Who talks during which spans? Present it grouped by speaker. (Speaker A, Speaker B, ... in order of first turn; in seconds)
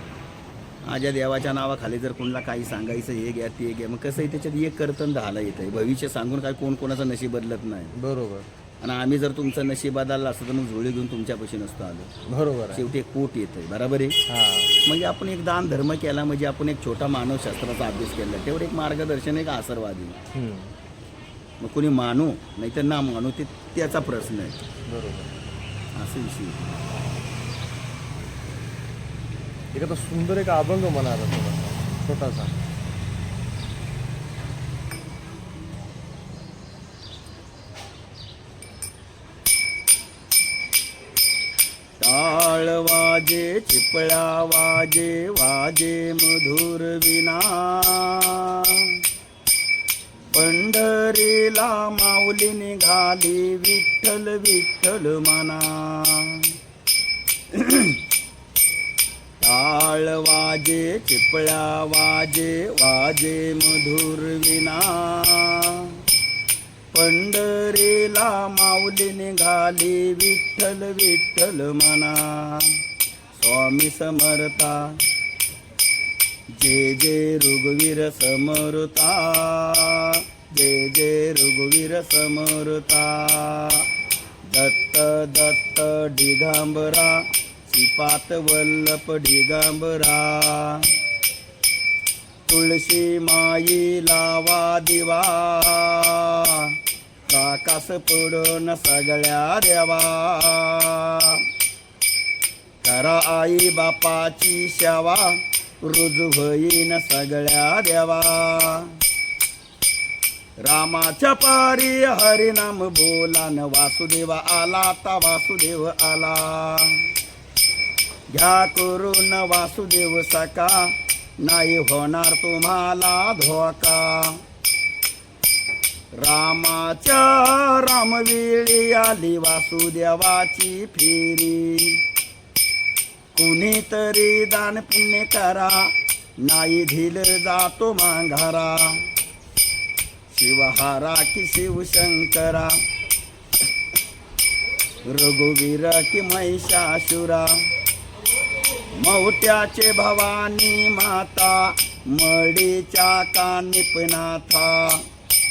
Speaker A: 0.8-7.9, 8.8-12.1, 12.7-14.2, 14.8-20.2, 21.6-24.7, 25.9-26.9, 42.0-49.0, 50.3-56.5, 57.5-58.0, 59.4-66.0, 66.9-72.8, 73.3-75.0, 76.5-83.9, 84.5-90.9, 92.5-96.8, 97.3-101.4, 102.8-109.0, 110.6-117.0, 118.3-124.4, 126.2-132.0, 133.3-139.1, 140.3-142.8, 145.1-147.6, 148.9-155.0
Speaker B: 8.0-8.5, 12.3-12.9, 14.3-14.7, 20.3-20.7, 24.9-25.3, 29.7-32.5